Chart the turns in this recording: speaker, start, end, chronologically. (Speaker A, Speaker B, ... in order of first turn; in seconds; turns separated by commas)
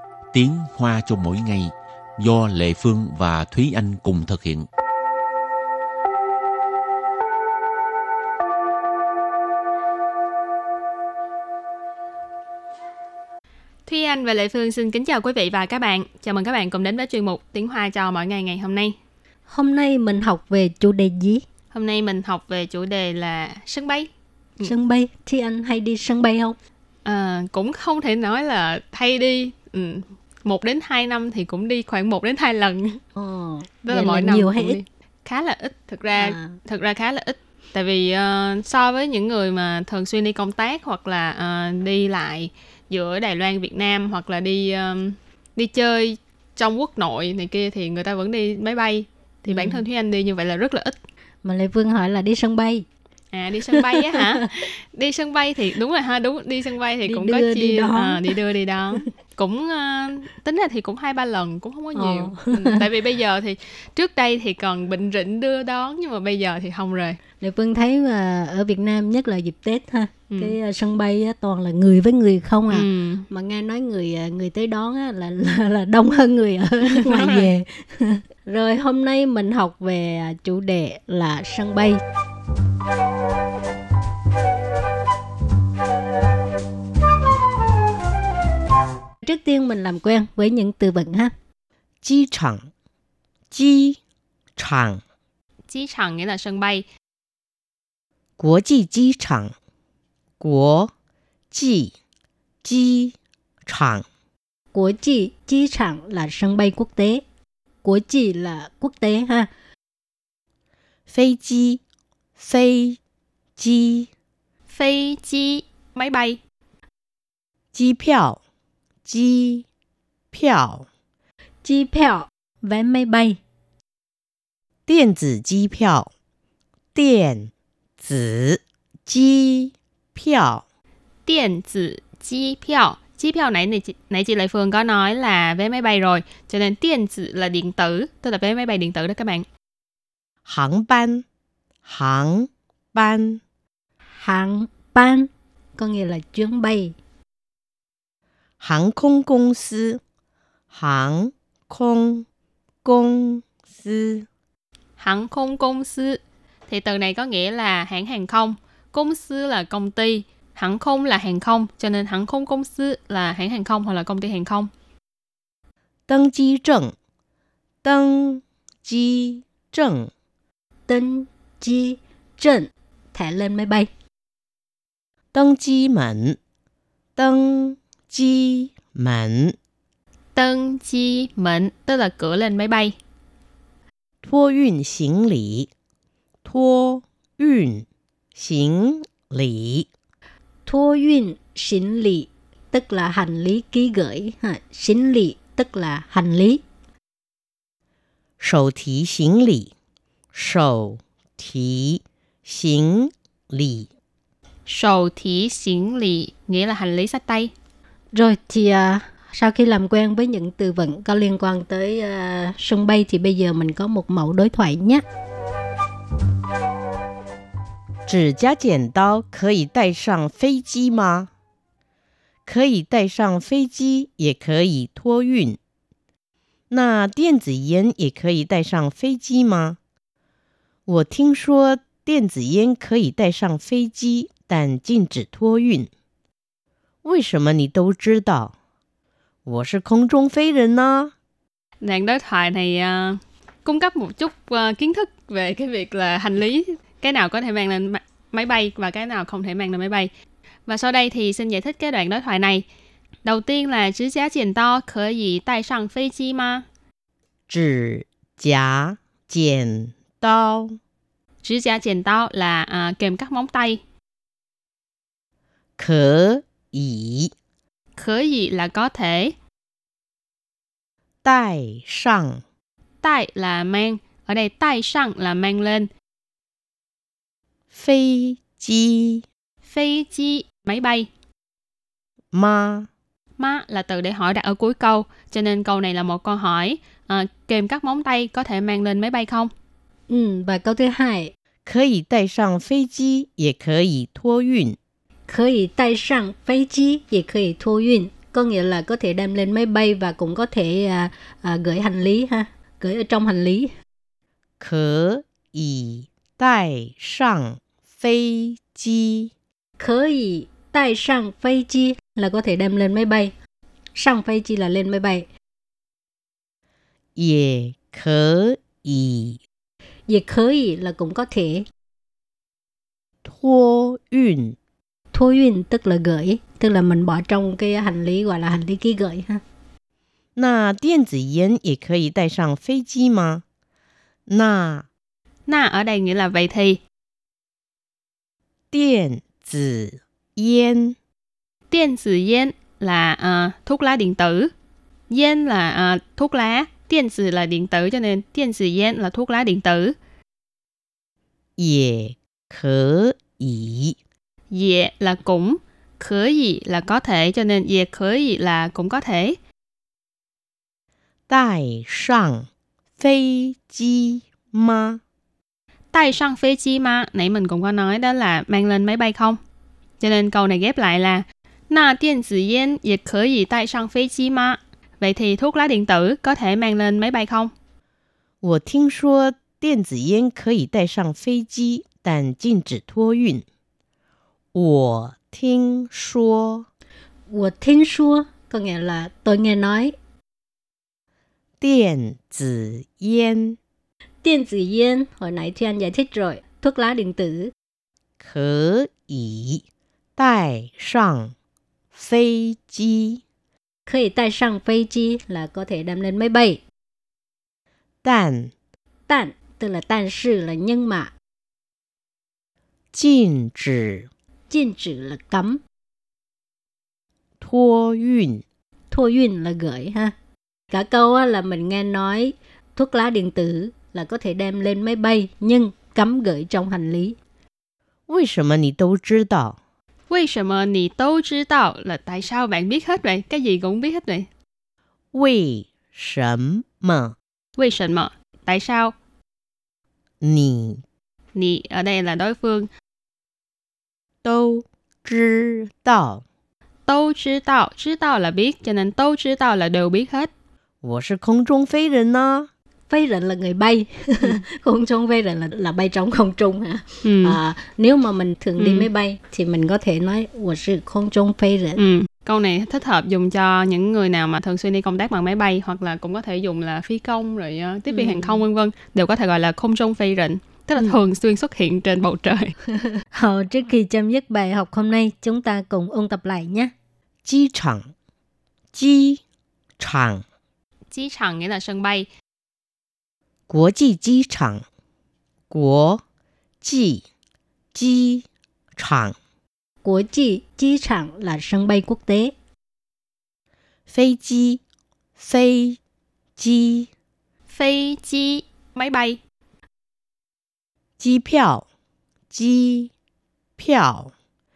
Speaker A: 0.3-4.7, Speaker B: 13.8-18.9, Speaker C: 19.5-21.4, Speaker B: 21.7-24.7, Speaker C: 24.6-26.6, Speaker B: 27.0-33.0, Speaker C: 33.1-34.8, Speaker B: 33.8-50.9, Speaker C: 36.2-36.6, Speaker C: 49.5-49.8, Speaker C: 51.4-52.9, Speaker B: 53.3-67.2, Speaker C: 53.7-54.5, Speaker C: 57.0-58.4, Speaker C: 61.9-62.8, Speaker C: 67.4-82.0, Speaker B: 70.3-70.6, Speaker B: 72.7-73.3, Speaker B: 76.8-77.5, Speaker C: 89.2-91.3, Speaker D: 92.0-92.7, Speaker D: 93.5-94.0, Speaker D: 94.6-95.0, Speaker B: 95.7-96.8, Speaker D: 98.4-99.5, Speaker D: 100.4-100.9, Speaker D: 101.5-101.9, Speaker D: 102.6-104.0, Speaker C: 104.7-107.2, Speaker C: 107.8-109.5, Speaker D: 111.1-111.8, Speaker D: 112.4-113.0, Speaker D: 113.6-114.1, Speaker B: 114.7-116.4, Speaker D: 117.7-118.4, Speaker D: 119.0-119.7, Speaker D: 120.3-120.9, Speaker C: 121.6-123.4, Speaker D: 124.9-126.1, Speaker D: 126.9-130.6, Speaker B: 131.2-139.4, Speaker D: 140.4-141.2, Speaker D: 141.8-143.4, Speaker C: 144.2-146.9, Speaker D: 148.6-150.0, Speaker D: 150.7-152.2, Speaker D: 152.8-154.2, Speaker B: 155.0-164.7, Speaker D: 166.1-166.9, Speaker D: 167.8-170.1, Speaker C: 170.9-173.9, Speaker D: 175.3-176.4, Speaker D: 177.2-179.6, Speaker B: 180.3-182.9, Speaker D: 184.2-185.7, Speaker D: 186.4-189.9, Speaker C: 190.7-196.6, Speaker D: 198.4-199.7, Speaker D: 200.3-203.9, Speaker B: 204.7-207.5, Speaker C: 208.1-215.0, Speaker D: 218.1-221.3, Speaker D: 222.4-225.6, Speaker D: 226.7-229.8, Speaker D: 230.9-235.9, Speaker D: 237.0-238.5, Speaker D: 239.4-241.1, Speaker B: 241.8-250.1, Speaker B: 250.7-252.7, Speaker B: 253.2-256.6, Speaker D: 257.5-260.8, Speaker B: 261.4-263.8, Speaker D: 265.8-267.3, Speaker B: 267.9-269.3, Speaker D: 271.2-272.4, Speaker B: 273.0-275.9, Speaker D: 277.7-279.2, Speaker B: 279.6-281.1, Speaker D: 282.3-282.9, Speaker B: 283.4-289.5, Speaker C: 290.1-291.3, Speaker D: 291.6-294.8, Speaker C: 295.3-303.7, Speaker D: 304.6-309.3, Speaker C: 309.8-313.3, Speaker C: 313.9-315.3, Speaker D: 317.1-319.4, Speaker C: 320.1-321.7, Speaker D: 323.2-324.6, Speaker C: 325.1-329.4, Speaker D: 330.4-333.4, Speaker D: 334.3-334.9, Speaker B: 335.5-336.8, Speaker D: 338.7-341.0, Speaker B: 341.7-344.5, Speaker B: 345.1-349.9, Speaker D: 351.6-354.0, Speaker B: 354.5-359.4, Speaker D: 361.3-362.5, Speaker D: 363.0-365.0, Speaker B: 365.9-369.4, Speaker B: 370.0-377.5, Speaker D: 378.4-383.4, Speaker D: 384.5-386.7, Speaker C: 387.3-389.9, Speaker D: 391.6-393.6, Speaker C: 394.2-397.5, Speaker D: 398.2-399.6, Speaker D: 400.2-401.3, Speaker D: 401.9-403.2, Speaker C: 403.9-406.6, Speaker D: 408.0-408.5, Speaker C: 409.1-411.1, Speaker D: 412.9-414.1, Speaker C: 414.5-415.6, Speaker D: 417.4-418.4, Speaker C: 418.9-420.1, Speaker C: 420.7-427.2, Speaker D: 428.1-429.6, Speaker B: 430.1-434.3, Speaker D: 435.1-437.1, Speaker B: 437.6-438.9, Speaker D: 440.2-440.8, Speaker B: 441.3-442.7, Speaker D: 444.2-446.2, Speaker B: 446.9-450.3, Speaker D: 450.8-452.5, Speaker C: 452.9-461.8, Speaker B: 457.0-457.4, Speaker B: 458.6-458.9, Speaker B: 461.8-472.5, Speaker C: 473.1-476.7, Speaker D: 477.2-477.9, Speaker D: 478.7-479.2, Speaker D: 479.8-480.2, Speaker B: 480.9-482.1, Speaker D: 483.5-484.6, Speaker D: 485.5-486.0, Speaker D: 486.6-487.0, Speaker D: 487.7-489.1, Speaker C: 489.8-492.3, Speaker D: 493.9-494.6, Speaker D: 495.2-495.8, Speaker D: 496.4-496.9, Speaker B: 497.5-499.2, Speaker D: 501.0-501.6, Speaker D: 502.3-502.9, Speaker D: 503.6-504.1